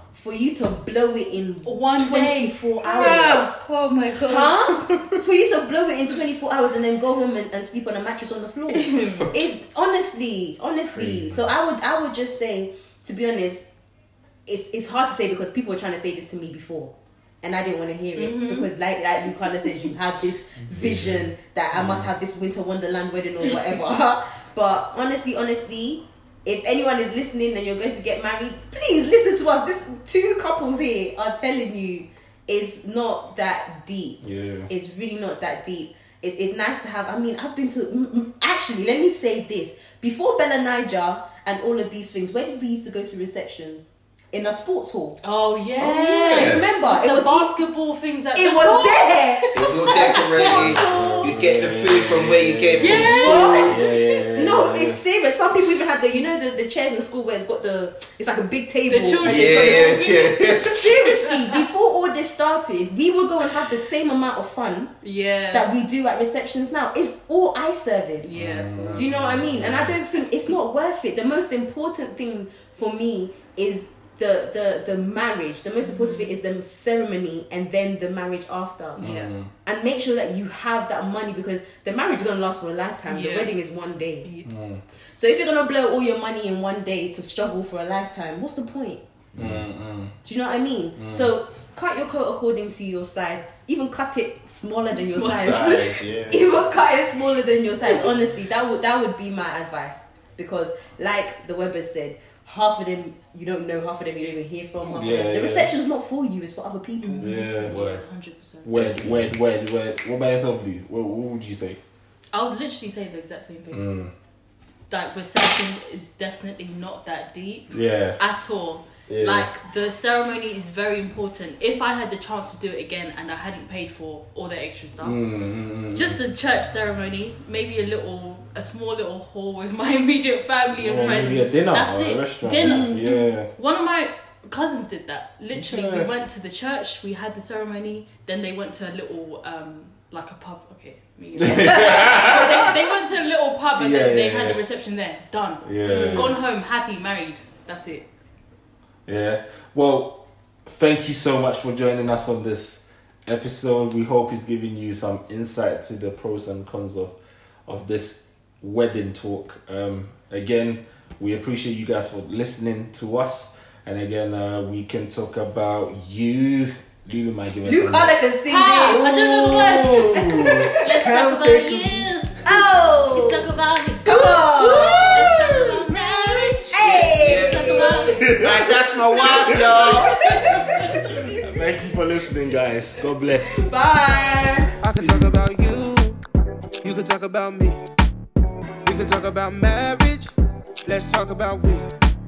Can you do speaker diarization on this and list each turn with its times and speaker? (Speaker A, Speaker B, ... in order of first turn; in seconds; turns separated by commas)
Speaker A: 0.1-3.5, Speaker B: 1.6-5.0, Speaker A: 4.2-13.7, Speaker B: 8.7-9.3, Speaker C: 10.9-11.4, Speaker A: 14.4-45.2, Speaker B: 18.1-18.7, Speaker C: 20.8-21.1, Speaker D: 21.7-22.1, Speaker D: 34.2-34.7, Speaker B: 45.2-51.1, Speaker A: 45.8-47.5, Speaker C: 46.3-46.6, Speaker A: 48.3-51.3, Speaker C: 49.5-53.5, Speaker D: 50.5-55.0, Speaker B: 52.8-54.3, Speaker A: 52.9-53.8, Speaker A: 54.3-64.9, Speaker B: 58.9-61.6, Speaker C: 59.2-60.8, Speaker B: 65.0-65.7, Speaker A: 65.5-68.4, Speaker B: 68.2-69.1, Speaker D: 68.3-69.9, Speaker A: 68.9-79.1, Speaker B: 75.8-76.3, Speaker B: 79.0-79.3, Speaker D: 79.0-79.5, Speaker A: 79.6-84.3, Speaker B: 83.1-83.5, Speaker B: 84.2-84.5, Speaker D: 84.4-84.8, Speaker A: 85.1-89.0, Speaker C: 89.3-89.7, Speaker D: 89.4-90.1, Speaker A: 90.2-108.0, Speaker D: 91.0-91.3, Speaker B: 94.9-96.0, Speaker D: 95.4-96.3, Speaker D: 104.8-105.7, Speaker B: 107.0-108.8, Speaker D: 107.2-107.7, Speaker D: 108.6-111.8, Speaker C: 108.7-109.3, Speaker B: 112.3-113.9, Speaker D: 113.7-114.1, Speaker B: 114.9-125.2, Speaker D: 117.7-118.2, Speaker D: 119.1-119.5, Speaker D: 125.0-126.2, Speaker B: 125.9-148.1, Speaker D: 130.8-133.5, Speaker A: 131.0-131.4, Speaker A: 132.6-133.3, Speaker D: 135.5-136.1, Speaker D: 141.4-142.7, Speaker D: 143.8-144.6, Speaker D: 145.6-146.3, Speaker A: 145.8-146.3, Speaker D: 149.1-172.0, Speaker A: 167.6-171.0, Speaker B: 168.5-178.3, Speaker A: 172.4-173.5, Speaker A: 174.0-175.2, Speaker D: 174.8-177.2, Speaker A: 176.7-178.2, Speaker C: 177.1-180.3, Speaker D: 178.1-178.7, Speaker D: 179.2-180.1, Speaker D: 180.9-183.7, Speaker A: 183.5-184.7, Speaker E: 184.8-186.2, Speaker D: 185.0-185.5, Speaker E: 186.8-187.8, Speaker E: 188.8-190.3, Speaker E: 190.8-191.8